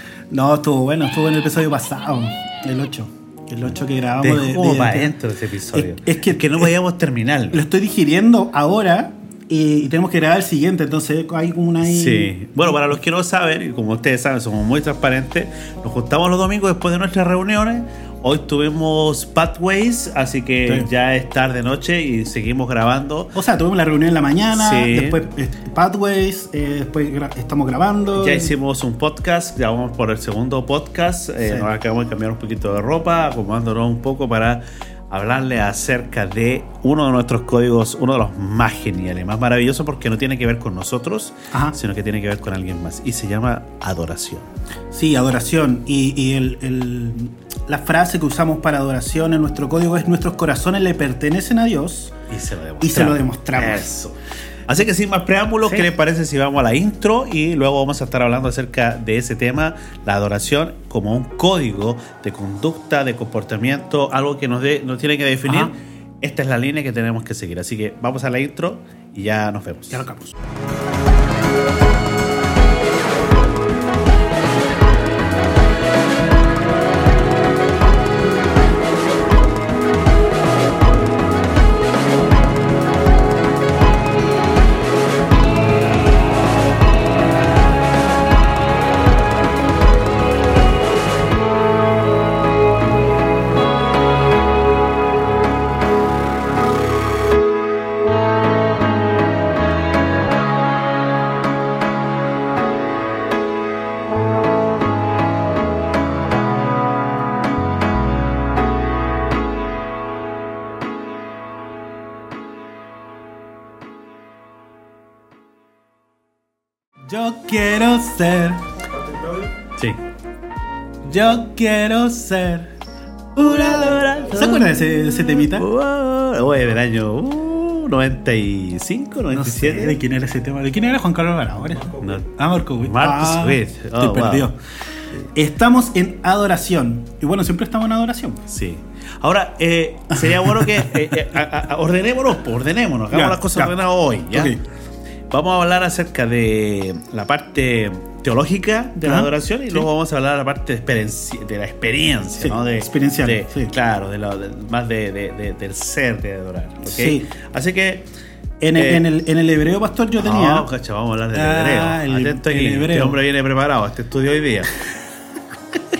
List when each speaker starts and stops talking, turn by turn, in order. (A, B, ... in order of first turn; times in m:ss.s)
0:00.3-0:05.2 A
0:04.2-0:07.6 B
0:05.7-0:06.7 A
0:07.5-0:12.9 A
0:11.8-0:23.3 B
0:23.3-0:28.5 A
0:24.5-0:25.2 B
0:28.2-0:44.5 B
0:41.5-0:41.8 A
0:44.9-0:52.2 A
0:52.3-1:10.1 B
0:52.8-0:53.9 A
1:05.4-1:05.7 A
1:09.9-1:10.3 A
1:57.1-1:59.4 A
2:01.0-2:02.7 A
2:03.4-2:05.7 A
2:03.4-2:04.7 B
2:05.3-2:10.0 B
2:09.3-2:14.6 A
2:12.0-2:14.5 B
2:15.1-2:18.4 A
2:18.5-2:24.6 B
2:20.2-2:21.2 A
2:23.1-2:23.7 A
2:24.3-2:24.6 A
2:25.3-2:38.1 B
2:29.0-2:29.9 A
2:32.4-2:33.7 A
2:36.8-2:37.3 A
2:38.6-2:40.7 A
2:38.7-2:39.0 B
2:40.2-2:44.8 B
2:41.3-2:43.2 A